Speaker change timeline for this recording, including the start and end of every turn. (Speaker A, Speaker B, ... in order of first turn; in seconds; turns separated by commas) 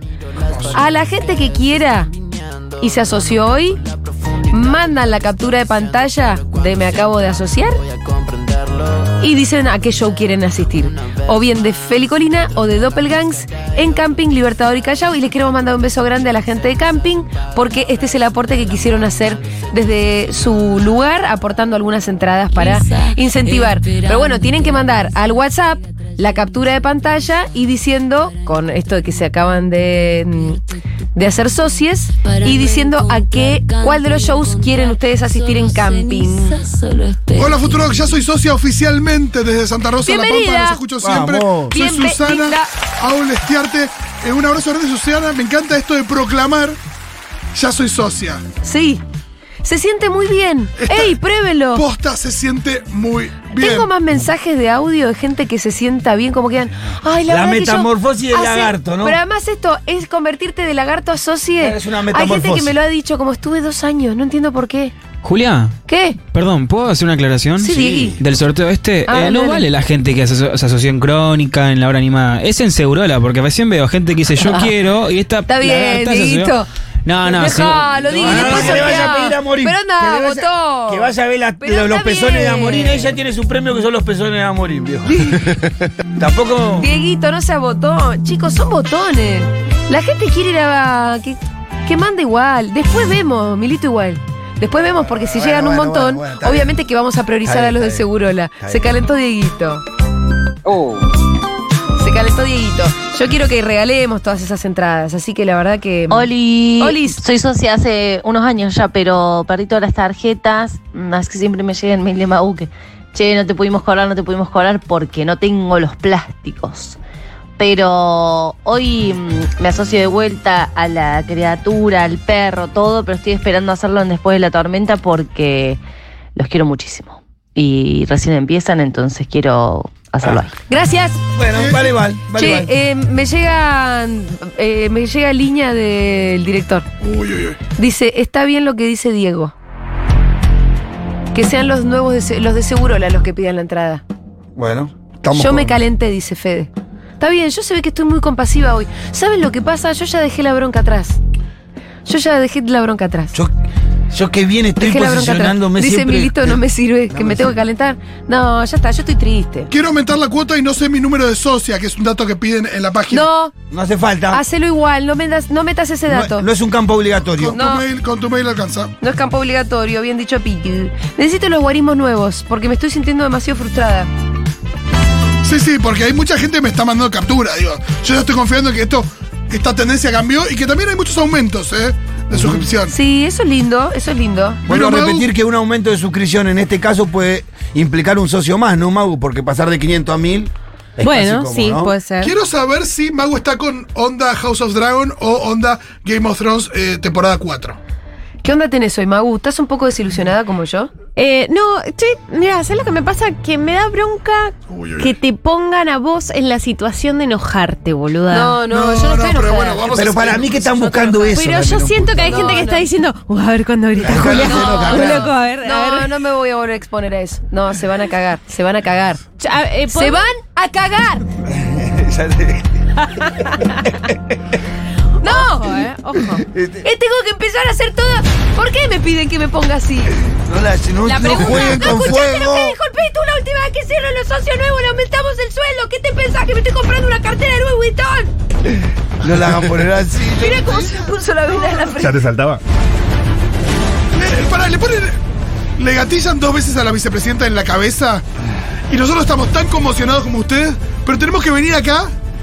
Speaker A: 0.7-2.1, Speaker A: 2.8-3.8, Speaker A: 4.5-7.8, Speaker A: 9.2-30.6, Speaker A: 31.1-36.6, Speaker B: 37.3-46.8, Speaker A: 40.0-40.8, Speaker C: 41.0-41.8, Speaker A: 41.7-42.7, Speaker B: 47.5-48.4, Speaker A: 48.6-49.0, Speaker A: 49.6-51.8, Speaker B: 50.8-51.2, Speaker B: 51.7-53.9, Speaker A: 53.5-64.9, Speaker C: 57.3-59.2, Speaker C: 61.6-62.8, Speaker D: 65.2-65.7, Speaker A: 65.9-66.2, Speaker D: 66.3-76.5, Speaker A: 67.6-68.2, Speaker C: 67.7-68.2, Speaker A: 69.1-69.7, Speaker A: 74.4-74.7, Speaker A: 75.5-76.7, Speaker D: 77.1-78.9, Speaker A: 77.2-83.1, Speaker C: 78.2-86.9, Speaker A: 85.1-85.4, Speaker A: 86.8-99.8, Speaker C: 94.9-96.7, Speaker C: 97.5-98.1, Speaker C: 98.6-99.0, Speaker A: 102.0-107.2, Speaker E: 106.1-117.0, Speaker E: 117.6-125.8, Speaker E: 126.3-130.5, Speaker A: 130.7-131.2, Speaker C: 131.4-132.7, Speaker B: 131.5-131.8, Speaker A: 132.3-136.9, Speaker B: 137.0-137.6, Speaker A: 137.8-139.5, Speaker A: 141.3-144.0, Speaker C: 144.6-145.8, Speaker A: 145.4-151.2, Speaker A: 152.1-153.3, Speaker C: 154.1-156.6, Speaker A: 154.8-159.7, Speaker C: 157.1-157.6, Speaker B: 159.7-163.3, Speaker A: 163.1-163.5, Speaker C: 163.7-164.4, Speaker A: 164.3-166.5, Speaker C: 166.1-167.6, Speaker B: 167.4-168.9, Speaker A: 167.5-167.8, Speaker A: 169.0-174.1, Speaker B: 175.4-182.9, Speaker C: 182.3-182.7, Speaker A: 182.9-184.7, Speaker B: 184.7-185.3, Speaker C: 184.7-191.9, Speaker F: 191.0-192.3, Speaker B: 192.2-197.8, Speaker A: 198.4-200.9, Speaker F: 201.2-208.6, Speaker B: 204.7-205.2, Speaker A: 208.3-210.1, Speaker B: 208.7-210.9, Speaker C: 209.9-212.5, Speaker A: 210.9-212.8, Speaker F: 211.3-216.1, Speaker C: 214.0-215.3, Speaker A: 214.1-219.2, Speaker F: 219.4-220.3, Speaker A: 219.9-221.3, Speaker C: 221.5-222.7, Speaker F: 223.0-223.9, Speaker C: 224.1-224.3, Speaker A: 225.2-225.8, Speaker F: 225.2-226.4, Speaker C: 226.4-226.8, Speaker A: 226.8-230.2, Speaker C: 230.4-232.8, Speaker A: 231.1-238.3, Speaker F: 231.1-231.9, Speaker C: 239.2-241.0, Speaker A: 240.4-242.3, Speaker C: 242.0-242.6, Speaker B: 244.2-245.2, Speaker B: 245.8-248.2, Speaker B: 248.9-252.1